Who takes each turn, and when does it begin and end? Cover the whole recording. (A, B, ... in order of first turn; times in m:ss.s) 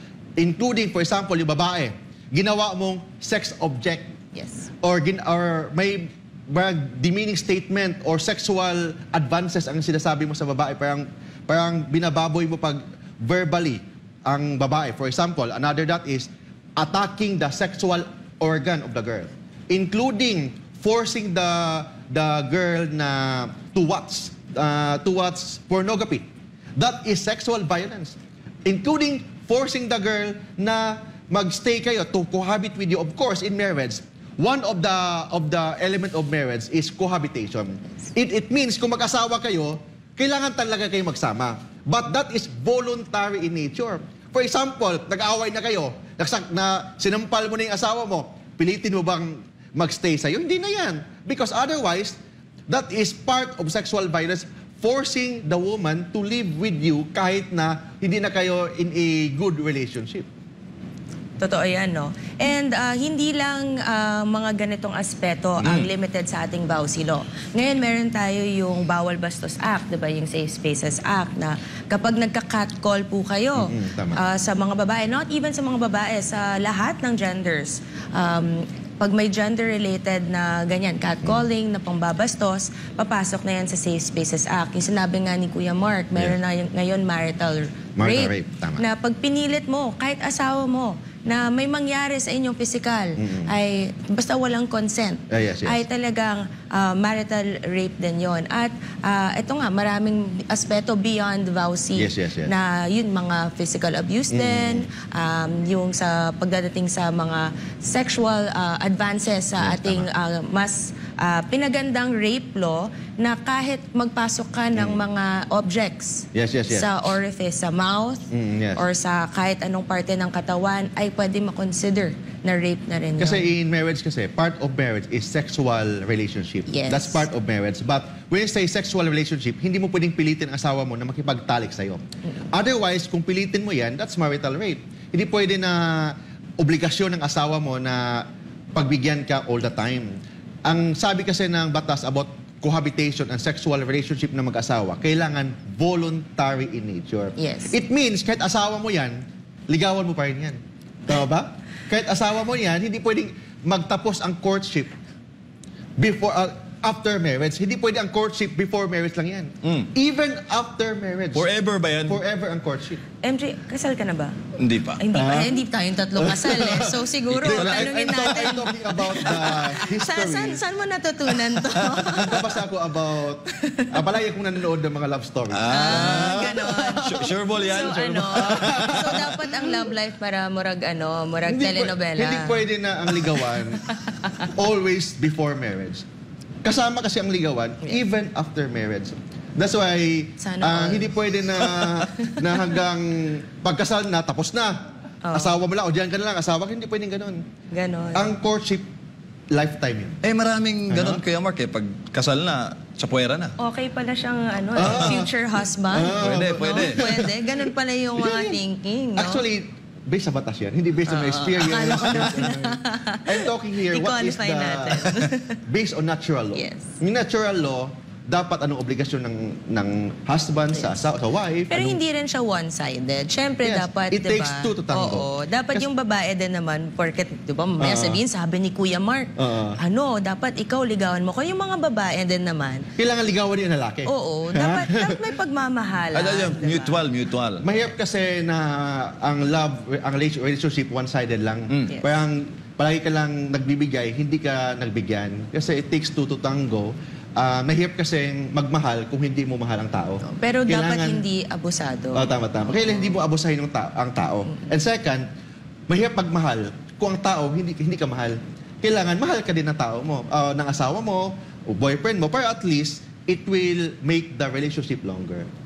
0:00.4-0:04.1 A
0:04.3-0:04.7 B
0:04.8-0:52.2 A
0:52.7-1:00.3 A
1:01.4-2:03.4 B
1:05.6-1:05.9 A
1:13.6-1:14.2 A
1:28.0-1:28.9 A
1:33.2-1:33.5 A
1:35.3-1:35.8 A
1:42.0-1:42.5 A
1:44.3-1:44.9 A
1:49.6-1:50.1 A
1:54.8-1:55.0 A
1:56.3-1:57.0 A
1:58.3-1:58.8 A
2:03.2-2:20.1 A
2:06.7-2:07.2 B
2:20.6-2:34.9 A
2:27.4-2:27.8 B
2:36.0-2:41.5 A
2:39.6-2:39.9 C
2:41.3-2:42.2 C
2:42.1-2:43.0 A
2:43.2-2:44.4 B
2:44.6-2:45.0 C
2:45.0-2:52.6 B
2:45.1-2:45.6 A
2:46.2-2:50.6 A
2:47.3-2:47.9 C
2:52.2-2:57.3 A
2:53.6-2:54.0 B
2:55.5-2:59.3 C
2:55.7-3:02.6 B
2:58.3-2:59.8 A
3:01.4-3:03.8 A
3:03.8-3:04.4 B
3:04.4-3:06.0 A
3:06.6-3:14.8 A
3:10.4-3:12.8 B
3:15.2-3:15.6 B
3:15.3-3:17.4 A
3:17.7-3:18.3 B
3:18.1-3:18.8 A
3:19.5-3:20.2 A
3:20.2-3:23.5 C
3:20.9-3:21.2 A
3:23.6-3:29.4 B
3:24.8-3:25.3 A
3:25.9-3:27.6 A
3:26.2-3:27.1 C
3:28.2-3:28.6 A
3:29.2-3:42.0 A
3:31.1-3:35.6 B
3:36.5-3:37.0 B
3:41.7-3:52.9 B
3:43.6-3:45.9 A
3:47.8-3:48.2 A
3:49.4-3:49.8 A
3:53.0-3:55.2 A
3:54.0-3:57.0 B
3:56.1-3:57.6 C
3:57.6-4:11.2 A
4:01.9-4:02.1 B
4:10.2-4:13.2 B
4:12.1-4:15.2 A
4:15.9-4:25.5 A